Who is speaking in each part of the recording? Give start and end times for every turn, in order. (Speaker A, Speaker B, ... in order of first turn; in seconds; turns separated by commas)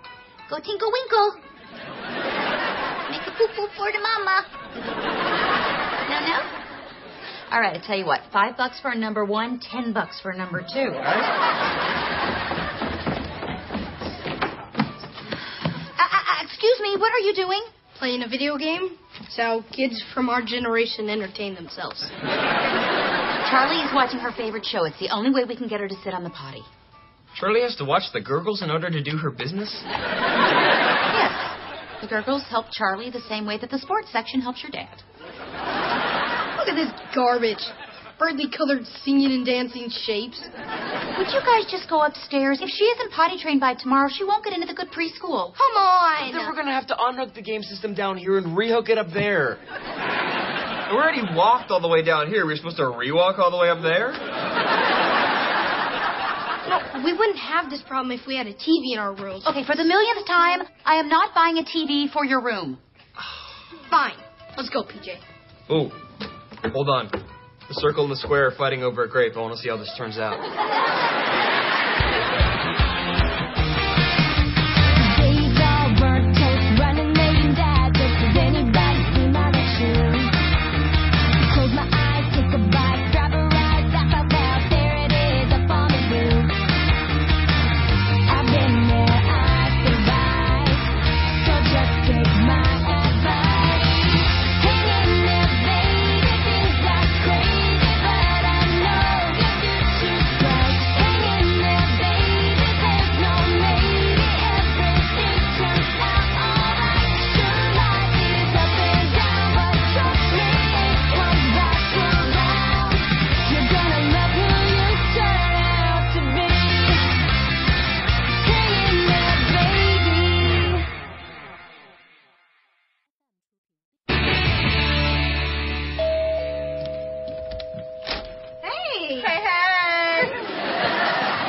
Speaker A: 0.5-1.4, Speaker A: 3.1-4.5, Speaker A: 6.1-6.5, Speaker A: 7.5-11.1, Speaker A: 16.0-17.7, Speaker B: 17.9-22.1, Speaker A: 23.4-26.7, Speaker C: 27.3-29.9, Speaker A: 31.1-35.0, Speaker B: 36.6-40.5, Speaker A: 41.1-45.6, Speaker B: 45.6-46.5, Speaker C: 46.2-49.6, Speaker C: 50.9-54.2, Speaker B: 56.7-59.5, Speaker A: 59.5-62.8, Speaker B: 63.9-65.2, Speaker C: 65.7-66.0, Speaker C: 66.7-67.2, Speaker C: 67.7-70.4, Speaker D: 74.9-80.3, Speaker D: 81.4-86.6, Speaker D: 88.3-117.1, Speaker D: 118.4-120.8, Speaker B: 128.7-129.3